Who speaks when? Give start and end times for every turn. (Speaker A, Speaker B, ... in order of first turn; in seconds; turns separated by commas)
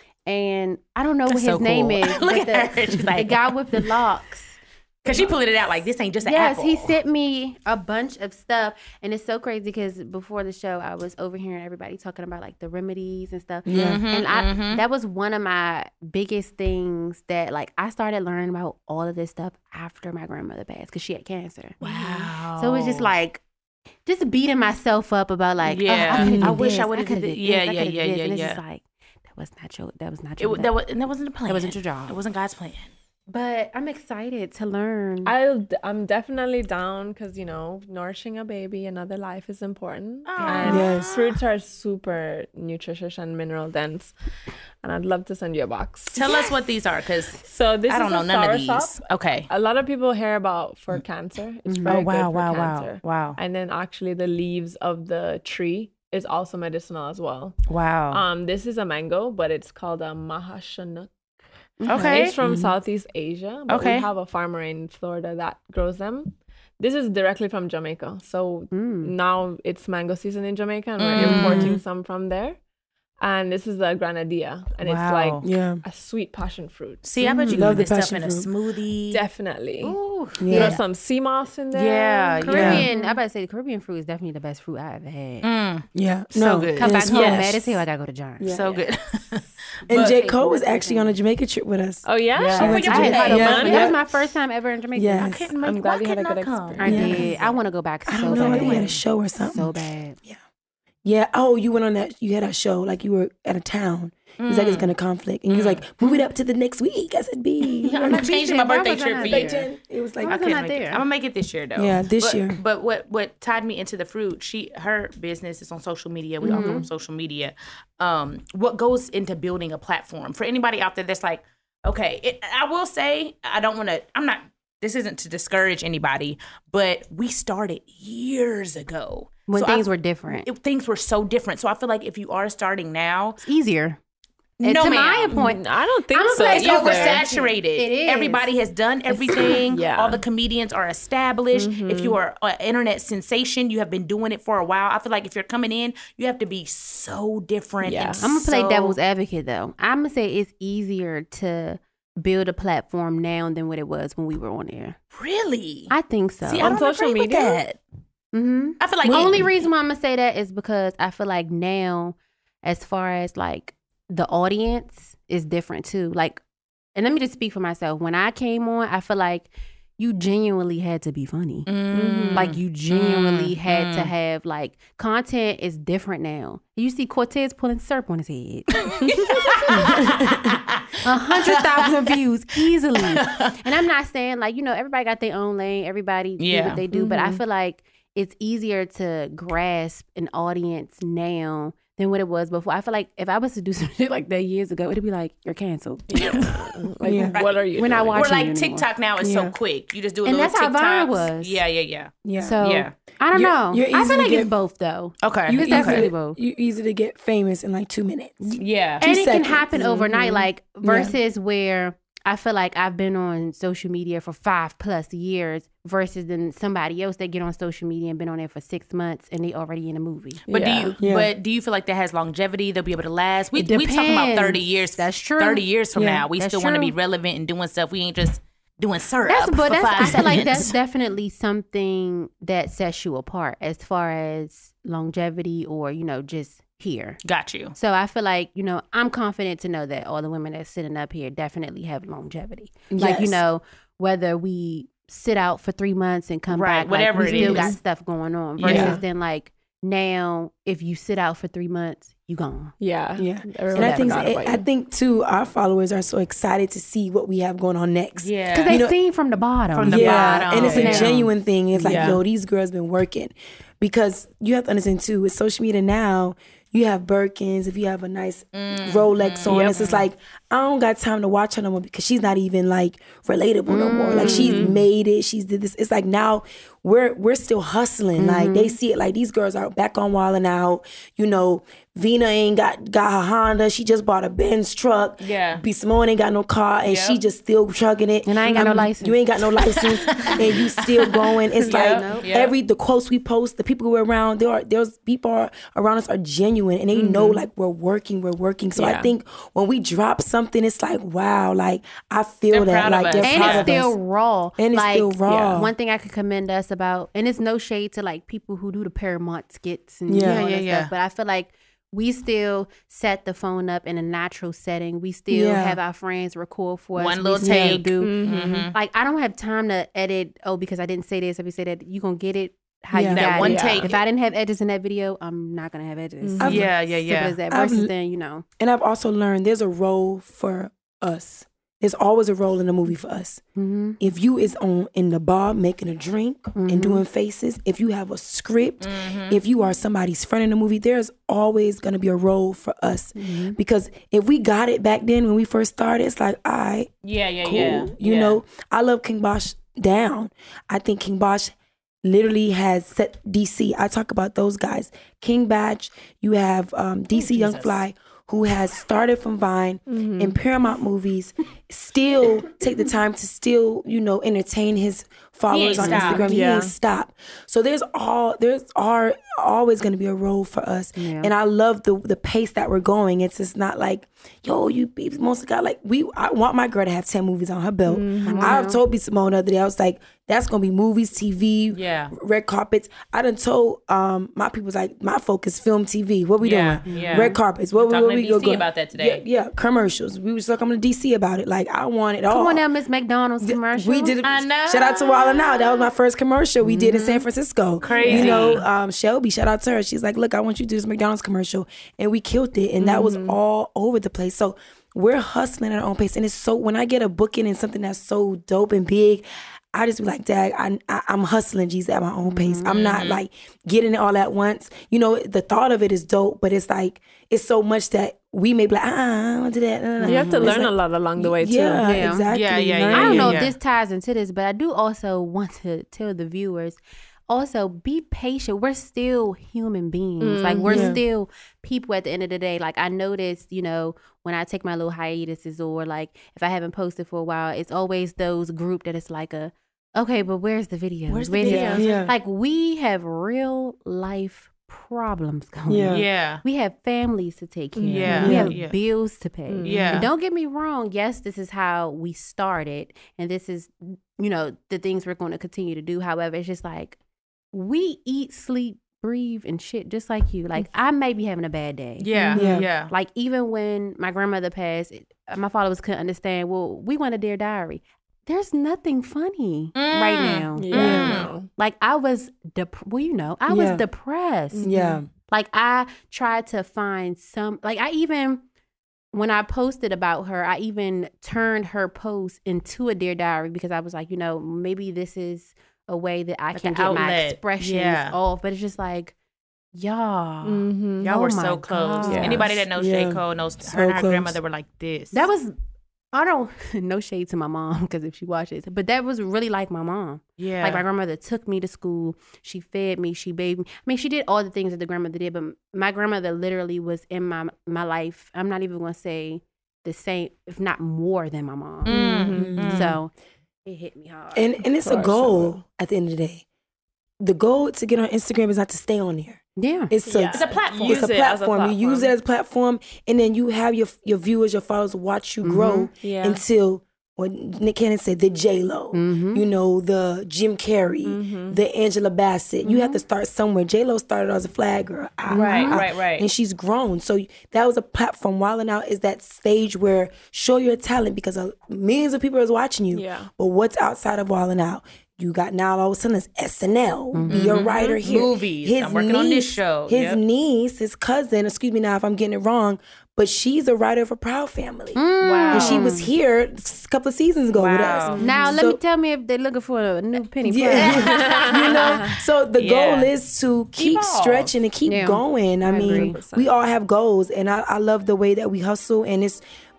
Speaker A: 0.3-5.4, Speaker B: 1.3-3.9, Speaker B: 5.0-7.0, Speaker A: 6.2-23.4, Speaker C: 13.7-14.0, Speaker B: 13.7-14.8, Speaker B: 21.8-23.1, Speaker A: 24.1-30.7, Speaker B: 25.6-28.6, Speaker C: 26.1-26.6, Speaker B: 30.4-32.9, Speaker A: 31.5-32.2, Speaker A: 33.3-35.3, Speaker D: 35.2-44.2, Speaker B: 40.3-41.4, Speaker C: 40.6-41.1, Speaker D: 44.8-46.4, Speaker B: 46.1-49.5, Speaker D: 47.4-57.6, Speaker A: 51.7-52.0, Speaker B: 51.9-53.4, Speaker B: 57.7-58.2, Speaker D: 58.1-61.1, Speaker A: 61.8-62.2, Speaker B: 61.9-62.4, Speaker D: 61.9-72.6, Speaker C: 62.4-62.7, Speaker B: 63.7-64.1, Speaker A: 68.7-69.1, Speaker B: 71.0-71.8, Speaker C: 71.2-71.8, Speaker D: 73.2-77.1, Speaker B: 74.8-75.5, Speaker C: 75.4-75.8, Speaker B: 77.0-79.2, Speaker A: 77.2-77.7, Speaker C: 77.5-78.5, Speaker D: 79.1-80.0, Speaker B: 79.8-80.8, Speaker C: 80.4-80.8, Speaker A: 80.5-80.8, Speaker D: 80.5-83.2, Speaker B: 81.7-82.9, Speaker A: 82.4-85.5, Speaker C: 82.5-82.9, Speaker B: 85.4-87.5, Speaker C: 85.9-87.6, Speaker A: 86.4-88.6, Speaker D: 87.2-87.4, Speaker C: 88.4-88.8, Speaker B: 88.5-90.2, Speaker C: 89.9-94.0, Speaker A: 89.9-91.2, Speaker D: 92.0-94.0, Speaker B: 92.3-93.9, Speaker A: 92.5-95.4, Speaker C: 95.0-95.5, Speaker B: 95.2-97.5, Speaker D: 95.6-97.3, Speaker A: 96.8-100.2, Speaker C: 96.8-97.3, Speaker C: 98.1-100.4, Speaker B: 98.2-99.0, Speaker C: 101.0-108.2, Speaker B: 104.4-104.9, Speaker B: 105.5-105.8, Speaker B: 107.8-109.6, Speaker A: 108.0-109.7, Speaker C: 109.2-110.5, Speaker A: 110.2-111.0, Speaker B: 110.2-133.4, Speaker C: 111.8-112.6, Speaker C: 116.4-116.8, Speaker A: 116.4-116.8, Speaker A: 129.5-130.5, Speaker A: 133.4-134.0, Speaker B: 134.6-135.5, Speaker A: 134.6-138.5, Speaker D: 135.3-137.2, Speaker B: 136.4-149.0, Speaker A: 139.1-139.6, Speaker D: 139.4-140.2, Speaker D: 141.5-142.2, Speaker D: 147.8-148.3, Speaker A: 148.2-155.0, Speaker B: 155.1-155.9, Speaker A: 155.9-156.8, Speaker B: 156.4-157.8, Speaker D: 156.6-157.6, Speaker A: 158.3-166.4, Speaker B: 158.8-159.5, Speaker C: 159.0-159.4, Speaker A: 167.0-171.7, Speaker B: 171.7-174.1, Speaker D: 171.9-172.5, Speaker A: 172.3-180.3, Speaker B: 178.8-182.2, Speaker A: 181.0-196.4, Speaker B: 183.0-183.6, Speaker B: 186.4-186.8, Speaker D: 186.9-187.4, Speaker D: 196.1-198.3, Speaker B: 196.1-202.9, Speaker C: 197.0-197.4, Speaker A: 197.8-198.9, Speaker C: 199.2-199.6, Speaker A: 200.2-201.6, Speaker C: 202.2-202.6, Speaker A: 202.4-206.4, Speaker C: 203.3-204.5, Speaker B: 205.2-206.1, Speaker C: 205.5-210.3, Speaker B: 208.6-209.0, Speaker A: 209.0-220.4, Speaker D: 209.8-210.3, Speaker C: 210.8-211.2, Speaker D: 220.5-221.0, Speaker B: 220.5-230.8, Speaker C: 221.0-221.3, Speaker A: 223.5-226.9, Speaker C: 226.0-226.2, Speaker A: 229.3-237.2, Speaker C: 230.0-230.3, Speaker B: 237.2-237.8, Speaker A: 237.7-252.8, Speaker C: 242.9-243.4, Speaker B: 246.5-247.8, Speaker D: 247.2-247.8, Speaker B: 248.6-249.0, Speaker C: 248.6-249.0, Speaker D: 248.7-249.0, Speaker D: 252.8-254.7, Speaker C: 253.2-259.0, Speaker A: 253.7-254.3, Speaker B: 258.2-258.9, Speaker A: 258.5-262.1, Speaker B: 259.7-261.1, Speaker C: 259.9-303.9, Speaker D: 260.6-261.1, Speaker B: 261.9-262.2, Speaker B: 268.5-270.1, Speaker A: 273.7-274.6, Speaker D: 274.2-274.8, Speaker A: 278.2-278.8, Speaker B: 285.2-285.6, Speaker B: 286.9-287.2, Speaker A: 288.3-289.2, Speaker D: 288.5-288.9, Speaker B: 289.6-292.5, Speaker A: 291.7-292.3, Speaker D: 296.9-297.4, Speaker D: 298.8-299.1, Speaker B: 302.5-303.7, Speaker A: 303.2-318.2, Speaker C: 304.6-305.7, Speaker D: 305.2-305.7, Speaker C: 310.1-310.4, Speaker B: 310.2-310.9, Speaker C: 315.3-315.8, Speaker B: 317.0-318.7, Speaker D: 318.0-318.7, Speaker A: 318.7-328.4, Speaker C: 322.9-323.6, Speaker B: 323.1-324.0, Speaker D: 323.4-323.9, Speaker D: 326.2-326.6, Speaker C: 326.4-326.7, Speaker B: 326.4-327.4, Speaker C: 327.5-327.9, Speaker C: 328.6-333.4, Speaker A: 333.6-334.0, Speaker C: 334.0-346.9, Speaker A: 336.6-337.0, Speaker B: 338.8-339.4, Speaker A: 343.2-343.6, Speaker B: 347.0-348.4, Speaker C: 347.4-392.6, Speaker B: 357.1-357.8, Speaker D: 359.9-360.4, Speaker B: 365.5-366.3, Speaker A: 365.8-366.3, Speaker D: 366.2-366.7, Speaker A: 371.0-371.3, Speaker D: 377.9-378.7, Speaker A: 378.3-378.8, Speaker B: 381.7-382.1, Speaker B: 386.4-389.2, Speaker A: 386.9-387.4, Speaker A: 392.3-394.2, Speaker C: 393.4-423.5, Speaker B: 394.2-395.7, Speaker A: 396.6-397.2, Speaker B: 397.8-398.6, Speaker D: 397.9-398.6, Speaker D: 402.8-403.4, Speaker A: 412.3-412.7, Speaker B: 412.7-413.2, Speaker A: 420.0-420.6, Speaker D: 420.0-421.9, Speaker A: 421.8-422.3, Speaker B: 422.3-423.6, Speaker A: 422.9-457.0, Speaker D: 430.2-431.0, Speaker C: 430.6-431.0, Speaker B: 441.1-441.9, Speaker C: 441.4-442.1, Speaker C: 445.7-446.1, Speaker B: 445.9-446.4, Speaker D: 447.8-448.4, Speaker B: 447.9-448.8, Speaker C: 448.2-448.6, Speaker D: 449.5-450.1, Speaker B: 449.6-450.1, Speaker A: 457.5-470.7, Speaker B: 462.0-462.9, Speaker C: 462.4-462.7, Speaker B: 469.8-471.3, Speaker D: 470.6-471.5, Speaker C: 470.7-471.1, Speaker A: 471.6-474.7, Speaker C: 473.5-473.8, Speaker D: 474.5-475.0, Speaker C: 474.6-475.1, Speaker A: 475.3-478.4, Speaker A: 479.1-489.1, Speaker B: 486.5-488.2, Speaker A: 489.7-492.6, Speaker D: 490.4-491.1, Speaker B: 491.0-495.3, Speaker D: 492.0-492.6, Speaker C: 492.8-494.4, Speaker A: 495.1-495.6, Speaker A: 496.1-513.1, Speaker B: 500.4-500.8, Speaker B: 511.9-513.0, Speaker D: 511.9-512.6, Speaker C: 512.4-512.9, Speaker A: 513.7-514.6, Speaker C: 514.4-516.4, Speaker D: 514.8-515.6, Speaker C: 517.2-555.0, Speaker A: 519.6-519.9, Speaker D: 520.1-522.1, Speaker B: 520.3-521.1, Speaker A: 525.4-525.9, Speaker D: 526.0-526.4, Speaker A: 528.9-529.4, Speaker D: 531.0-531.6, Speaker A: 532.6-533.0, Speaker A: 535.3-535.8, Speaker B: 535.4-536.3, Speaker D: 542.9-543.3, Speaker A: 547.1-547.5, Speaker B: 547.3-550.2, Speaker D: 547.5-548.0, Speaker A: 555.0-556.1, Speaker B: 555.2-555.9, Speaker C: 555.5-558.8, Speaker B: 557.5-558.2, Speaker D: 558.1-558.6, Speaker A: 558.2-561.0, Speaker C: 560.4-569.4, Speaker B: 560.7-563.1, Speaker D: 560.9-562.1, Speaker B: 563.8-564.5, Speaker A: 564.9-566.2, Speaker D: 565.6-566.5